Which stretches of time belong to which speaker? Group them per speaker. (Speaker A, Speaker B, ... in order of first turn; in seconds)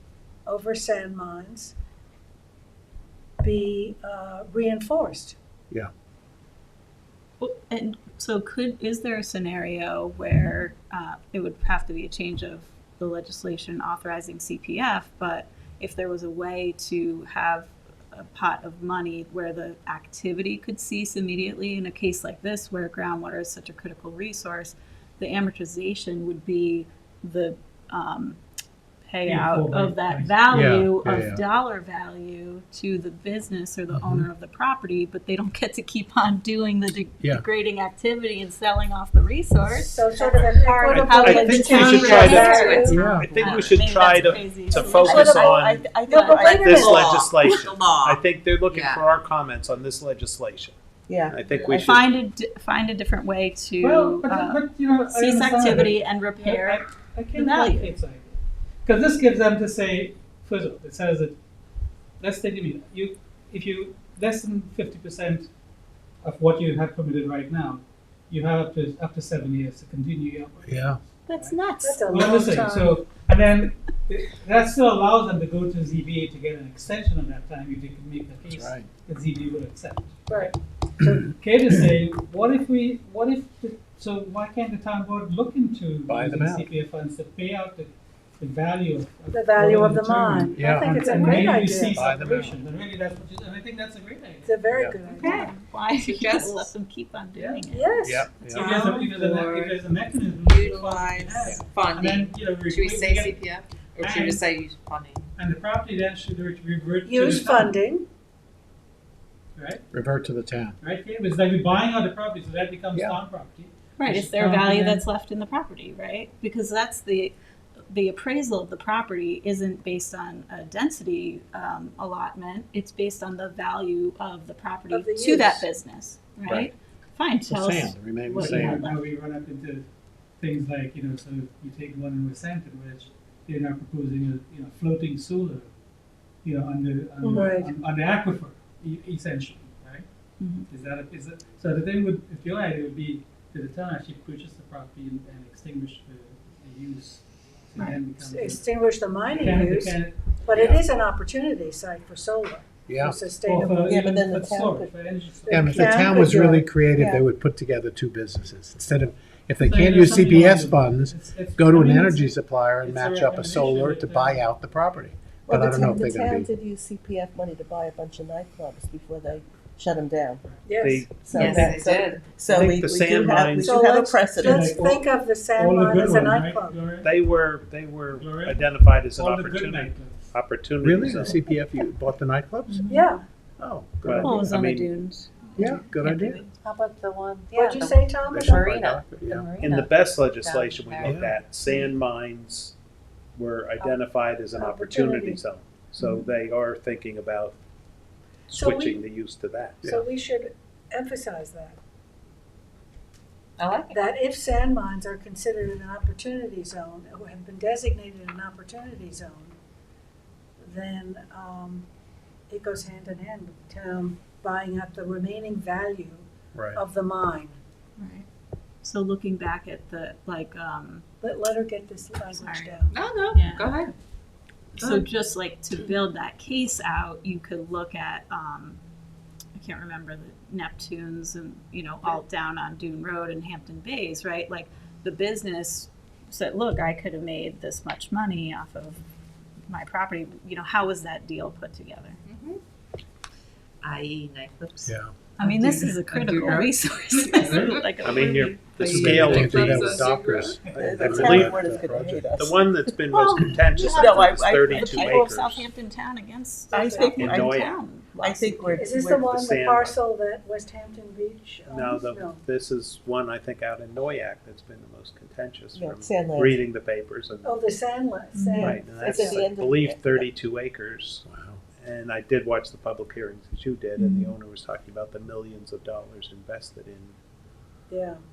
Speaker A: 0.5-1.7, 3.4-5.3, 39.7-43.1, 45.0-47.1, 71.8-73.0, 80.3-80.5, 89.3-92.0, 94.5-95.5, 97.7-99.1, 107.0-108.1, 124.9-125.7, 137.2-137.7, 148.2-154.0, 155.4-156.5, 170.7-171.8, 173.6-176.8, 182.9-183.2, 187.5-188.7, 194.5-195.4, 198.5-199.0, 199.8-201.8, 203.9-209.6, 210.6-211.9, 212.5-217.6, 221.2-222.9, 256.8-257.1, 258.8-262.4, 267.4-269.4, 277.9-278.2
Speaker B: 7.4-28.4, 29.0-40.1, 40.9-46.6, 51.7-57.9, 71.3-72.0, 91.0-91.5, 95.1-98.7, 114.0-117.3, 117.9-129.0, 140.4-140.7, 147.8-148.0, 182.7-183.2, 184.2-186.5, 196.0-196.3, 218.0-218.2, 218.8-221.1, 222.3-222.8, 223.3-223.8, 224.8-228.8, 229.6-239.0, 239.7-242.2, 245.4-248.8, 253.8-258.8, 268.3-268.8, 274.0-274.3
Speaker C: 29.2-30.3, 53.8-61.3, 62.2-65.5, 66.2-94.6, 97.3-97.6, 98.5-103.3, 104.0-104.5, 105.3-107.7, 109.5-109.8, 110.8-115.0, 128.4-129.8, 130.4-135.7, 136.4-140.0, 140.7-148.7, 149.3-150.3, 153.4-156.2, 159.6-164.4, 170.4-170.7, 174.5-177.1, 178.1-180.3, 247.4-247.9, 250.6-251.4
Speaker D: 30.5-31.4, 33.9-34.3, 42.8-43.4, 70.6-71.0, 78.5-78.9, 86.1-86.7, 90.5-91.0, 91.9-92.6, 98.0-98.8, 109.9-110.8, 112.9-113.2, 127.4-128.8, 150.5-150.8, 152.8-153.2, 155.5-166.5, 180.8-182.9, 183.6-184.8, 185.6-186.4, 188.3-189.5, 191.0-191.3, 216.5-216.8, 244.8-245.1, 248.8-252.3, 271.3-271.6
Speaker E: 40.9-45.9, 46.5-50.7, 51.2-52.1, 170.8-171.2, 172.5-173.7, 177.0-181.4, 184.0-184.9, 189.6-192.7, 193.3-197.6, 198.5-199.9, 248.0-250.0, 250.7-251.6, 252.4-255.7, 257.1-257.8, 259.2-260.0, 261.7-267.6, 268.6-277.1
Speaker F: 42.3-42.7, 44.9-47.2, 51.1-52.0, 153.9-154.9, 156.1-157.2, 165.5-170.4, 171.2-174.8, 250.8-255.2, 256.7-259.3, 265.7-266.6, 268.6-270.3
Speaker G: 42.5-42.8, 46.7-49.0, 95.1-96.7, 98.5-99.8, 100.4-105.3, 171.2-172.5, 186.6-191.2, 203.6-204.0, 222.9-223.9, 224.8-225.1, 242.2-242.6, 243.8-250.6